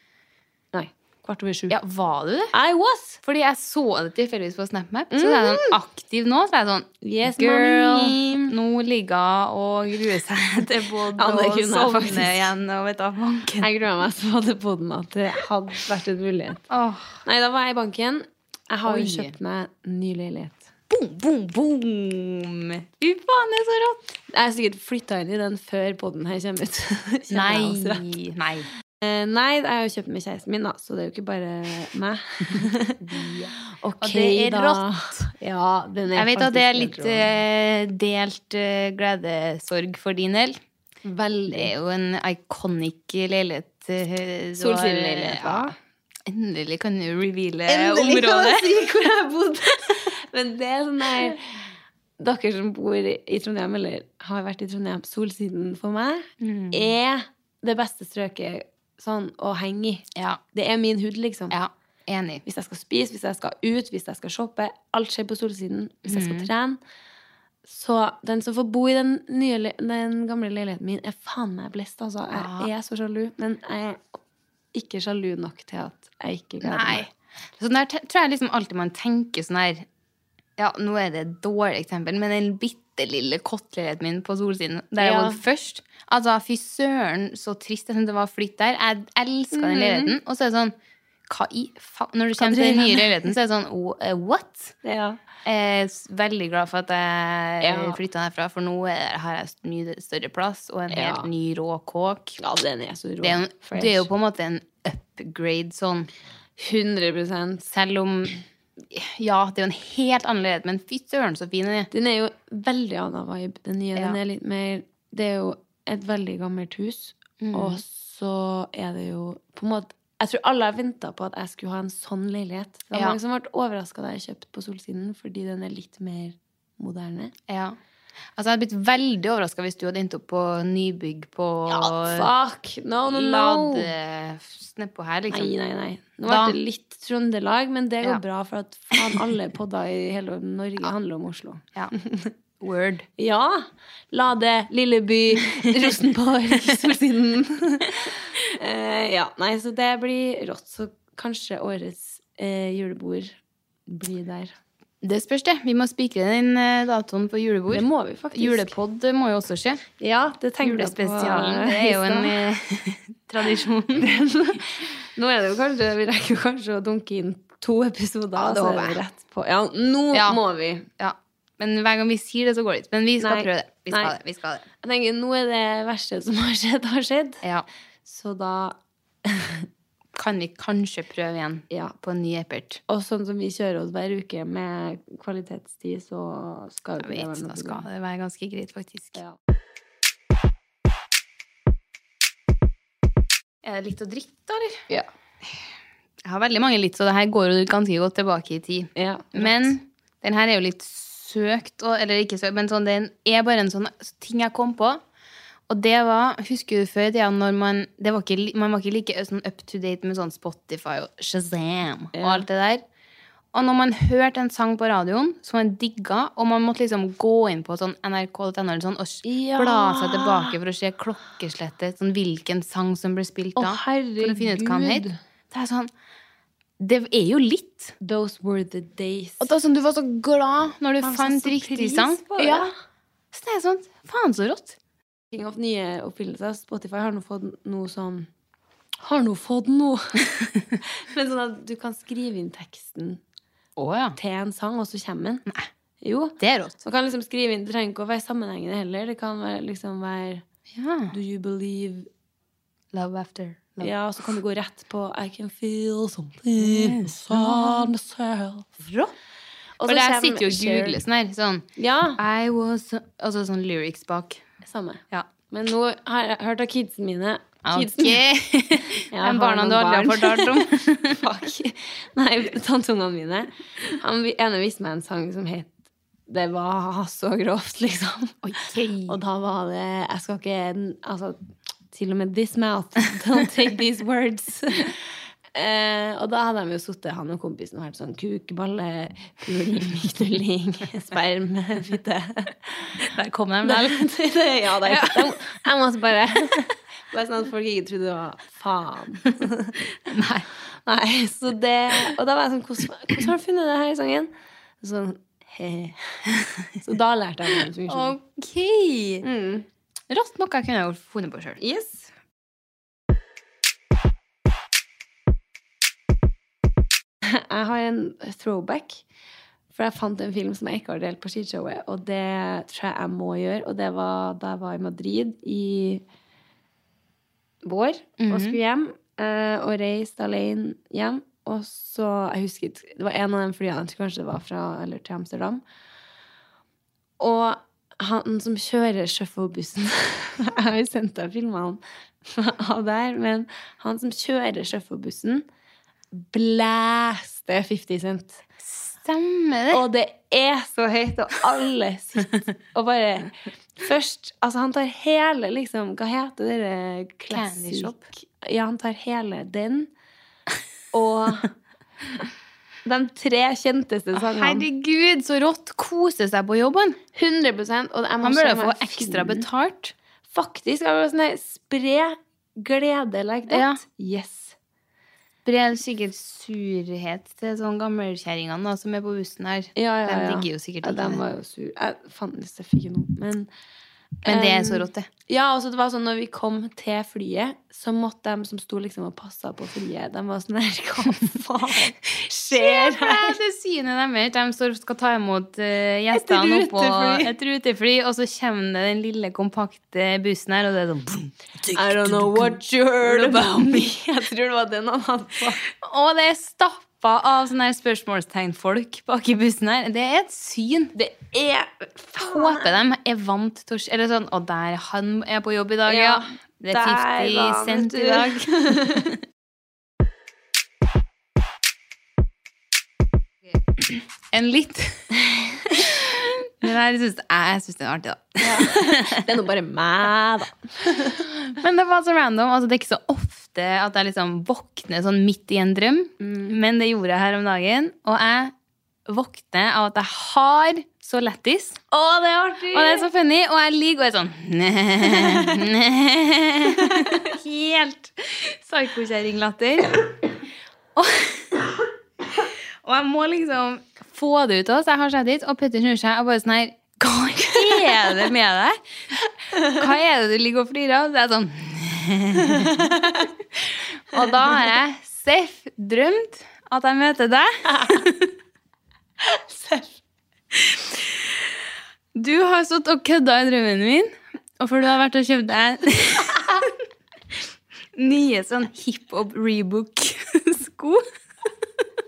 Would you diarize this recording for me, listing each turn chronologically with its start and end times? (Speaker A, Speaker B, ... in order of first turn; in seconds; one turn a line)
Speaker A: 0.7-1.8
Speaker B: 1.7-2.5
Speaker A: 2.5-3.2
Speaker B: 3.2-13.7
Speaker A: 5.1-5.8
Speaker A: 7.0-8.5
Speaker A: 11.2-12.4
Speaker A: 13.6-16.6
Speaker B: 16.7-17.2
Speaker A: 17.2-20.6
Speaker B: 18.9-19.3
Speaker B: 20.9-24.0
Speaker A: 24.3-28.1
Speaker B: 27.3-28.7
Speaker A: 29.0-33.3
Speaker B: 32.5-34.8
Speaker A: 33.8-37.3
Speaker B: 36.1-40.6
Speaker A: 41.0-41.7
Speaker B: 41.5-45.7
Speaker A: 44.5-45.7
Speaker B: 46.3-48.7
Speaker A: 47.7-51.5
Speaker A: 52.2-61.5
Speaker B: 56.4-56.9
Speaker B: 61.5-62.4
Speaker A: 62.4-66.8
Speaker B: 66.0-66.5
Speaker A: 67.7-74.2
Speaker B: 72.3-72.7
Speaker A: 74.7-77.0
Speaker B: 76.6-79.8
Speaker B: 80.6-90.7
Speaker A: 85.0-85.4
Speaker A: 89.5-90.2
Speaker B: 91.3-94.8
Speaker A: 92.4-93.3
Speaker A: 94.8-95.2
Speaker B: 95.4-102.4
Speaker A: 97.6-98.0
Speaker A: 100.9-101.3
Speaker A: 102.4-104.1
Speaker B: 103.2-106.1
Speaker A: 106.6-107.7
Speaker B: 107.7-111.9
Speaker A: 111.9-127.3
Speaker B: 117.4-117.8
Speaker B: 122.9-123.2
Speaker B: 127.5-127.7
Speaker B: 128.4-132.3
Speaker A: 131.7-133.9
Speaker B: 133.1-135.5
Speaker A: 135.3-142.3
Speaker B: 136.3-136.6
Speaker B: 142.6-143.1
Speaker A: 143.2-153.3
Speaker A: 153.9-154.5
Speaker B: 155.0-159.8
Speaker A: 157.7-158.7
Speaker A: 160.0-162.4
Speaker B: 160.6-164.1
Speaker A: 164.0-170.9
Speaker B: 168.4-169.0
Speaker B: 170.1-170.4
Speaker B: 171.0-174.6
Speaker A: 173.2-174.1
Speaker A: 174.8-177.4
Speaker A: 178.1-179.7
Speaker B: 180.1-182.8
Speaker A: 181.7-181.9
Speaker A: 182.9-187.8
Speaker B: 187.0-189.2
Speaker B: 193.6-194.8
Speaker B: 196.2-205.0
Speaker A: 198.9-199.7
Speaker B: 205.7-212.8
Speaker A: 212.1-212.4
Speaker B: 213.5-225.9
Speaker A: 219.2-220.5
Speaker A: 223.6-225.2
Speaker B: 226.8-227.9
Speaker A: 228.0-229.5
Speaker B: 229.4-232.7
Speaker A: 231.0-232.7
Speaker B: 233.3-234.8
Speaker A: 235.3-238.3
Speaker A: 239.0-240.3
Speaker A: 240.8-243.2
Speaker B: 243.8-244.2
Speaker A: 244.2-245.4
Speaker A: 246.0-250.4
Speaker B: 246.4-246.8
Speaker B: 250.7-251.1
Speaker A: 251.1-252.1
Speaker B: 252.9-254.3
Speaker A: 253.8-258.7
Speaker B: 256.6-257.9
Speaker B: 258.8-259.1
Speaker A: 259.8-261.0
Speaker B: 259.8-261.6
Speaker A: 261.8-262.2
Speaker B: 262.2-264.4
Speaker A: 264.6-268.2
Speaker B: 267.6-271.2
Speaker A: 269.1-275.7
Speaker A: 276.3-278.4
Speaker B: 278.4-279.2
Speaker A: 279.1-281.4
Speaker A: 281.9-285.0
Speaker A: 285.5-293.0
Speaker B: 293.1-294.0
Speaker A: 293.6-299.8
Speaker B: 294.8-295.4
Speaker B: 300.1-300.5
Speaker A: 300.9-304.3
Speaker A: 304.8-306.2
Speaker A: 306.8-308.1
Speaker B: 307.9-309.2
Speaker A: 309.2-309.6
Speaker B: 310.1-311.6
Speaker A: 311.6-312.1
Speaker A: 317.2-319.0
Speaker A: 319.7-326.0
Speaker A: 327.6-335.6
Speaker B: 328.2-328.6
Speaker A: 337.2-345.4
Speaker A: 346.1-348.4
Speaker B: 348.6-349.8
Speaker A: 349.7-359.9
Speaker B: 357.3-358.0
Speaker A: 360.9-361.5
Speaker A: 362.8-364.6
Speaker B: 364.1-367.0
Speaker A: 367.1-369.5
Speaker B: 368.2-369.9
Speaker A: 370.3-374.6
Speaker B: 373.5-373.8
Speaker B: 375.4-381.2
Speaker A: 379.8-383.5
Speaker A: 384.2-393.4
Speaker B: 384.2-385.1
Speaker B: 392.5-403.9
Speaker A: 396.1-397.3
Speaker A: 401.7-405.6
Speaker B: 405.8-410.9
Speaker A: 410.9-412.8
Speaker B: 412.2-418.9
Speaker A: 415.9-419.1
Speaker B: 423.9-425.1
Speaker B: 425.7-429.2
Speaker A: 428.4-431.2
Speaker B: 431.5-438.5
Speaker A: 436.2-436.6
Speaker B: 439.1-441.8
Speaker A: 441.9-443.1
Speaker B: 442.7-450.0
Speaker B: 450.9-451.5
Speaker B: 452.8-458.8
Speaker A: 457.6-458.2
Speaker B: 459.6-462.9
Speaker A: 462.5-463.3
Speaker B: 463.6-468.3
Speaker A: 464.1-464.6
Speaker A: 467.6-468.1
Speaker A: 469.2-470.0
Speaker B: 472.1-476.6
Speaker B: 477.9-481.0